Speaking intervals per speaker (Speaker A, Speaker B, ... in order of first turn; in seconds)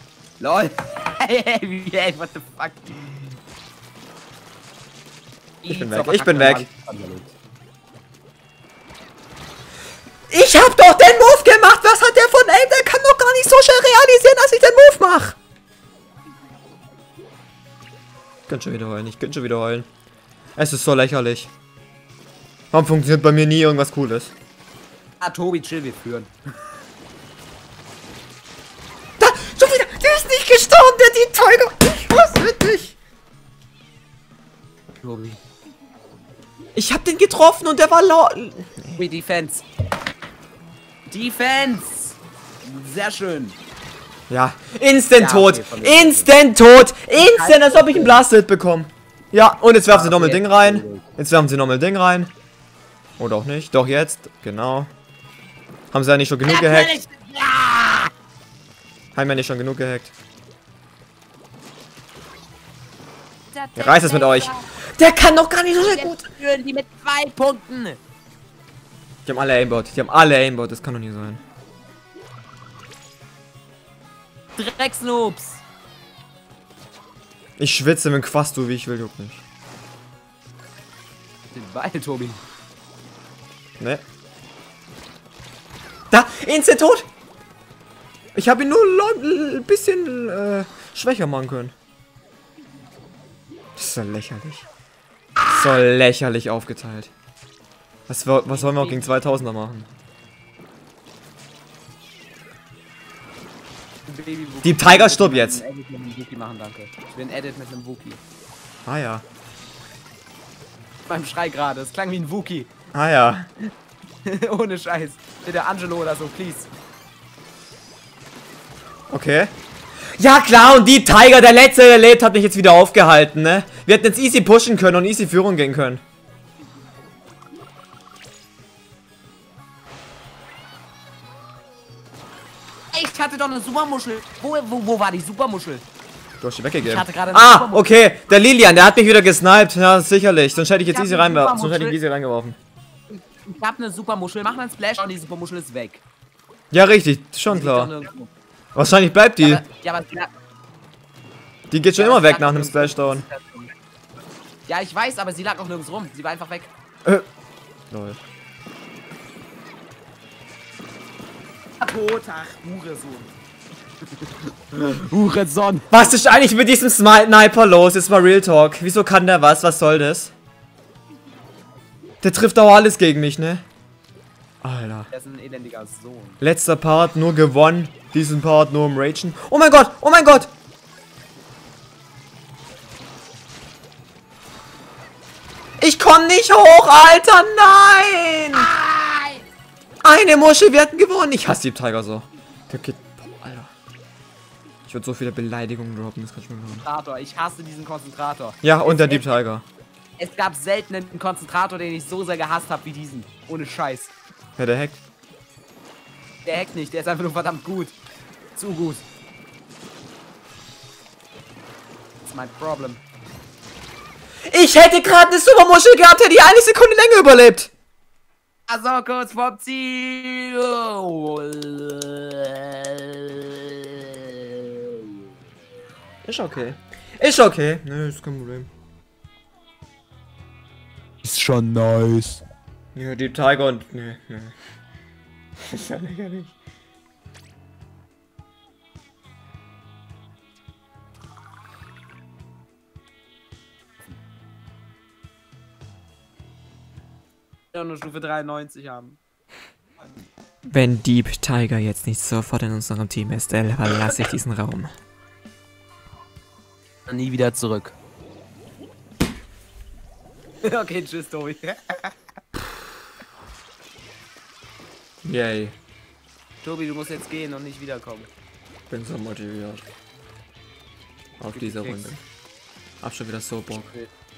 Speaker A: 0.4-3.4, 5.6-7.3, 25.2-26.3, 35.0-35.4, 39.0-39.6, 41.1-43.6, 45.2-46.3, 47.1-48.2, 49.9-51.0, 56.5-58.1, 63.5-64.7, 65.8-68.0, 74.6-75.6, 81.5-82.4, 98.5-99.1, 104.0-108.2, 111.1-112.7, 114.2-116.7, 132.9-135.8, 136.8-137.9, 140.9-141.9, 143.1-146.0, 147.5-148.3, 149.4-150.3, 152.0-153.7, 154.7-156.7, 161.8-163.3, 164.0-165.9, 175.1-176.4, 188.5-189.4, 196.8-199.3, 200.2-204.1, 206.4-207.9, 208.5-209.0, 212.2-213.0, 218.7-225.1, 231.2-232.4, 247.7-249.2, 257.1-257.9, 260.6-262.1, 266.6-268.3, 271.5-272.2, 273.7-274.1
Speaker B: 5.7-6.7, 10.3-15.4, 18.5-19.9, 20.6-21.5, 22.7-24.3, 29.2-32.9, 36.7-39.0, 44.3-52.3, 53.2-54.9, 55.9-57.0, 59.1-60.1, 63.8-66.3, 69.2-71.4, 77.6-79.4, 83.8-84.0, 86.1-87.0, 88.3-91.7, 93.8-94.7, 95.5-97.1, 98.1-99.9, 104.6-105.6, 108.8-109.2, 112.9-113.5, 119.1-119.5, 120.2-126.0, 136.4-142.6, 146.7-147.9, 148.7-149.6, 151.7-153.2, 157.9-158.2, 165.9-170.3, 172.2-173.6, 174.6-175.1, 176.4-180.5, 185.8-188.7, 190.0-193.7, 194.9-196.8, 198.6-199.6, 204.6-205.0, 214.5-217.7, 226.2-228.7, 232.9-234.6, 235.6-236.5, 250.7-254.9, 265.2-265.7, 268.9-269.9, 271.4-272.2, 273.0-273.9